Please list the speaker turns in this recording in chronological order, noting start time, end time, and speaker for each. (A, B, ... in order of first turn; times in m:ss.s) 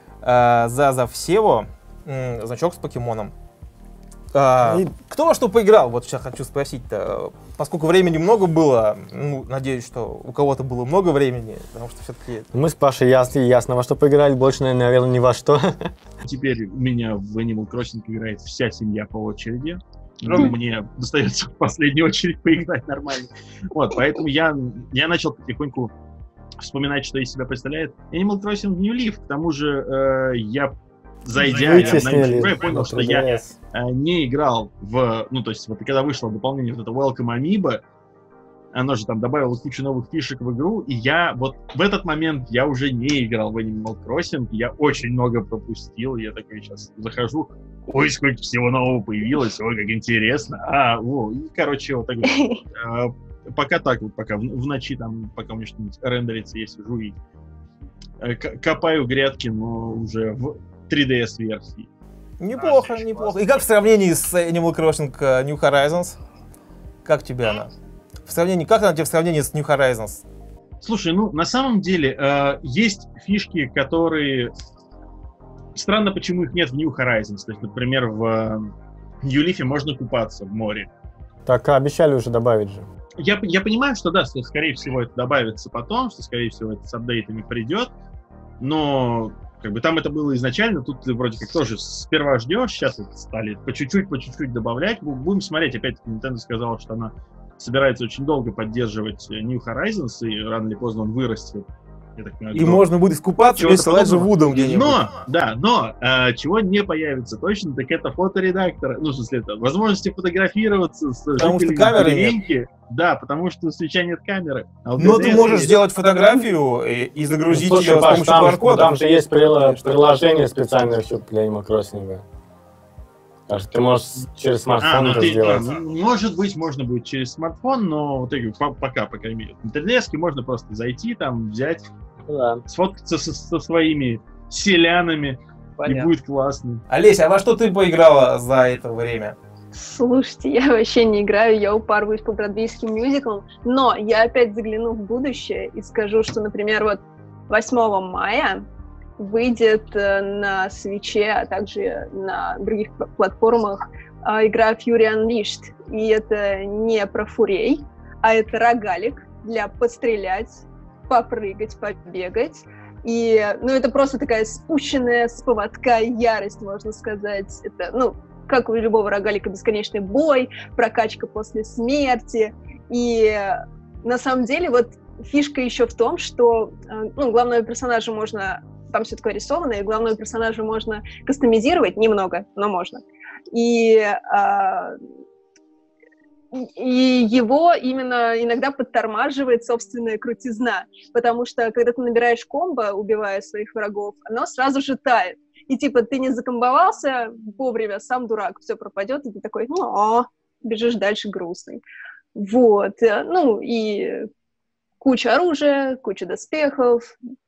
0:00.2-0:03.3 A
0:04.3-0:12.5 A
0:04.6-0:04.9 B
0:12.5-0:15.9 B
0:16.2-0:25.9 C
0:26.6-0:37.8 C
0:31.4-0:33.6 B
0:38.7-0:57.2 C
0:52.2-0:52.6 D
0:58.2-1:01.9 C
1:02.4-1:06.2 A
1:07.0-1:07.7 A
1:08.3-1:10.2 A
1:10.8-1:14.5 C
1:15.7-1:20.9 C
1:21.4-1:22.9 B
1:23.2-1:27.9 C
1:28.6-1:42.8 C
1:42.5-1:45.0 A
1:43.4-1:55.7 C
1:51.4-1:52.4 A
1:55.0-1:59.8 A
1:57.5-2:02.2 B
2:03.5-2:05.7 B
2:04.7-2:11.9 C
2:12.2-2:12.6 B
2:12.7-2:16.8 C
2:15.8-2:16.1 A
2:16.9-2:19.4 A
2:19.7-2:28.6 D
2:29.2-3:05.0 D
3:06.5-3:21.8 D
3:22.4-3:24.3 D
3:25.0-3:27.2 D